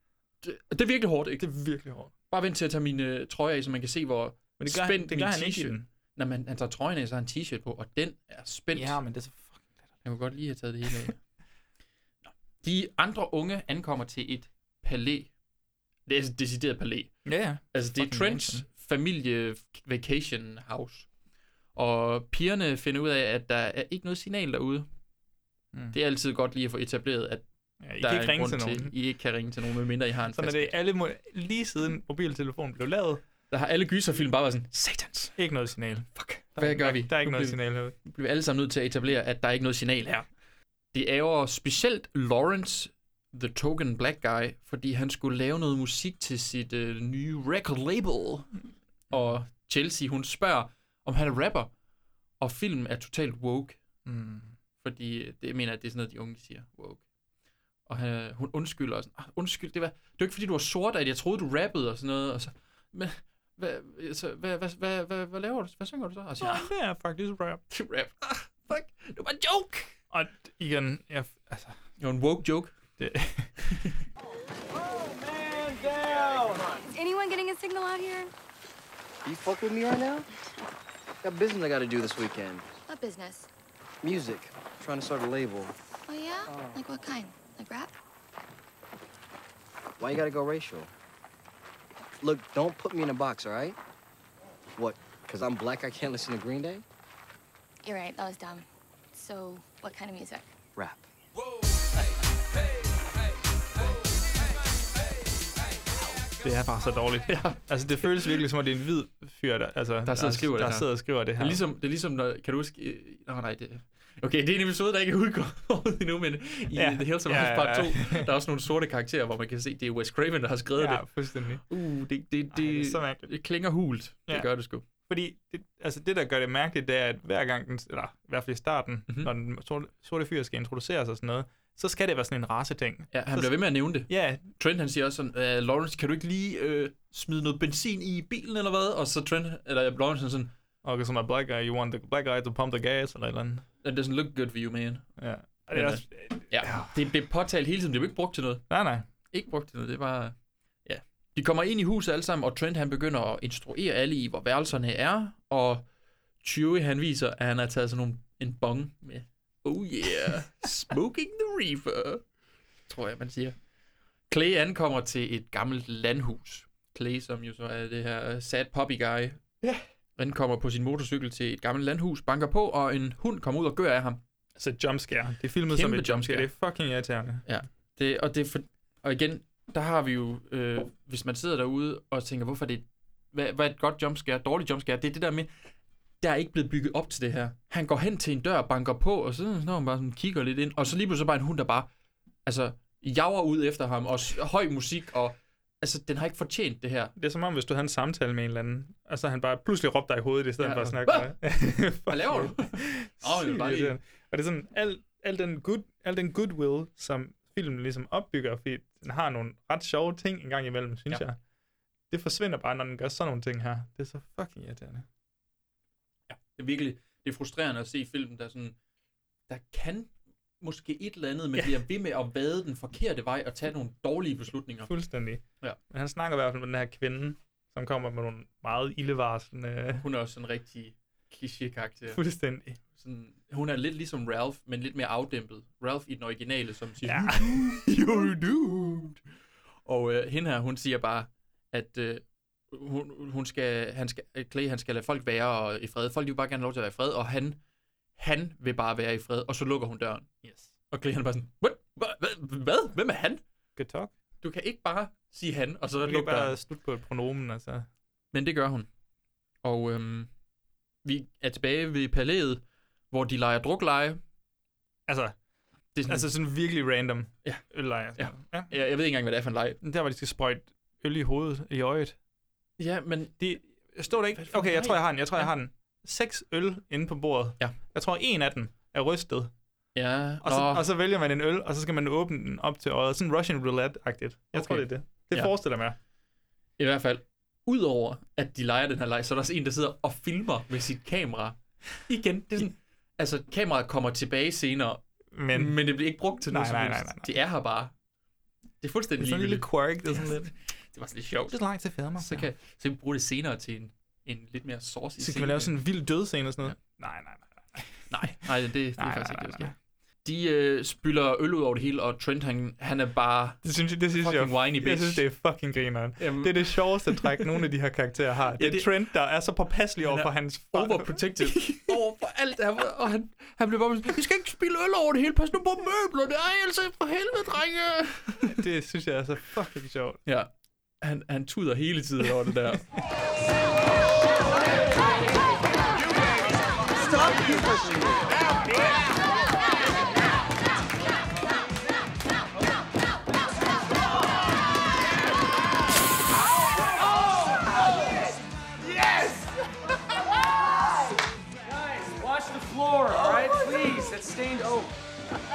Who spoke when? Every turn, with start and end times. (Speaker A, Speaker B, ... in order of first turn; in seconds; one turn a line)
Speaker A: 0.4-1.5
Speaker B: 1.4-2.1
Speaker A: 2.3-9.0
Speaker B: 4.6-5.9
Speaker B: 8.7-9.7
Speaker A: 10.0-11.2
Speaker A: 12.2-15.3
Speaker A: 16.1-21.1
Speaker B: 17.2-18.6
Speaker A: 21.8-24.9
Speaker A: 25.9-27.4
Speaker B: 27.8-28.9
Speaker A: 28.0-30.7
Speaker B: 30.3-33.2
Speaker A: 33.5-35.4
Speaker B: 35.4-37.9
Speaker A: 36.1-40.3
Speaker A: 40.9-48.5
Speaker A: 49.1-51.7
Speaker A: 52.4-53.8
Speaker B: 54.0-54.5
Speaker A: 54.8-57.0
Speaker A: 57.9-66.7
Speaker B: 66.4-67.6
Speaker A: 67.7-69.9
Speaker B: 70.1-71.8
Speaker A: 72.0-72.7
Speaker B: 73.0-73.7
Speaker C: 75.0-76.6
Speaker D: 75.9-76.2
Speaker E: 76.9-78.3
Speaker D: 79.2-80.3
Speaker D: 81.2-82.7
Speaker E: 82.9-83.5
Speaker D: 84.0-85.7
Speaker E: 86.1-87.9
Speaker D: 86.5-86.8
Speaker D: 90.0-90.9
Speaker D: 92.2-93.8
Speaker D: 94.8-96.8
Speaker E: 97.8-100.5
Speaker B: 106.4-111.6
Speaker A: 107.3-108.4
Speaker A: 110.0-121.1
Speaker B: 116.7-118.3
Speaker B: 120.8-121.7
Speaker A: 121.6-124.8
Speaker B: 122.5-123.3
Speaker B: 125.0-133.5
Speaker A: 133.1-140.5
Speaker B: 134.1-134.4
Speaker B: 140.8-143.6
Speaker A: 143.8-145.1
Speaker B: 145.2-146.9
Speaker A: 145.7-148.7
Speaker B: 148.7-149.1
Speaker A: 149.3-155.8
Speaker A: 156.4-162.2
Speaker A: 162.9-163.5
Speaker A: 164.3-169.6
Speaker A: 170.2-174.2
Speaker B: 174.6-177.4
Speaker A: 175.7-176.5
Speaker A: 177.4-185.5
Speaker A: 186.2-191.9
Speaker A: 192.4-197.1
Speaker B: 197.2-211.4
Speaker A: 200.6-201.4
Speaker A: 201.9-203.9
Speaker B: 212.1-215.1
Speaker A: 216.3-218.8
Speaker A: 219.5-224.9
Speaker B: 224.8-230.1
Speaker A: 230.0-232.2
Speaker B: 232.1-232.8
Speaker A: 232.9-239.2
Speaker B: 237.0-238.0
Speaker A: 239.8-247.6
Speaker A: 248.2-250.3
Speaker B: 250.4-250.7
Speaker A: 250.9-253.4
Speaker B: 253.8-254.1
Speaker A: 254.4-256.5
Speaker B: 256.0-257.9
Speaker A: 258.3-258.9
Speaker A: 259.6-260.3
Speaker A: 261.0-264.2
Speaker B: 265.1-265.3
Speaker A: 265.9-266.3
Speaker B: 266.1-268.7
Speaker A: 267.4-269.8
Speaker B: 269.8-272.1
Speaker A: 272.8-273.5
Speaker B: 273.4-279.5
Speaker A: 274.3-275.5
Speaker A: 279.9-280.8
Speaker B: 280.4-285.9
Speaker A: 284.5-285.5
Speaker A: 286.8-297.9
Speaker B: 295.3-297.3
Speaker A: 298.8-301.6
Speaker B: 299.2-300.5
Speaker B: 301.5-302.5
Speaker A: 302.2-305.8
Speaker B: 305.2-308.4
Speaker A: 308.1-309.7
Speaker B: 309.0-309.7
Speaker A: 310.2-315.2
Speaker B: 313.6-321.8
Speaker A: 316.2-317.5
Speaker A: 318.6-318.9
Speaker A: 320.0-328.6
Speaker B: 328.5-330.2
Speaker A: 331.0-332.9
Speaker D: 336.9-338.4
Speaker C: 352.8-354.6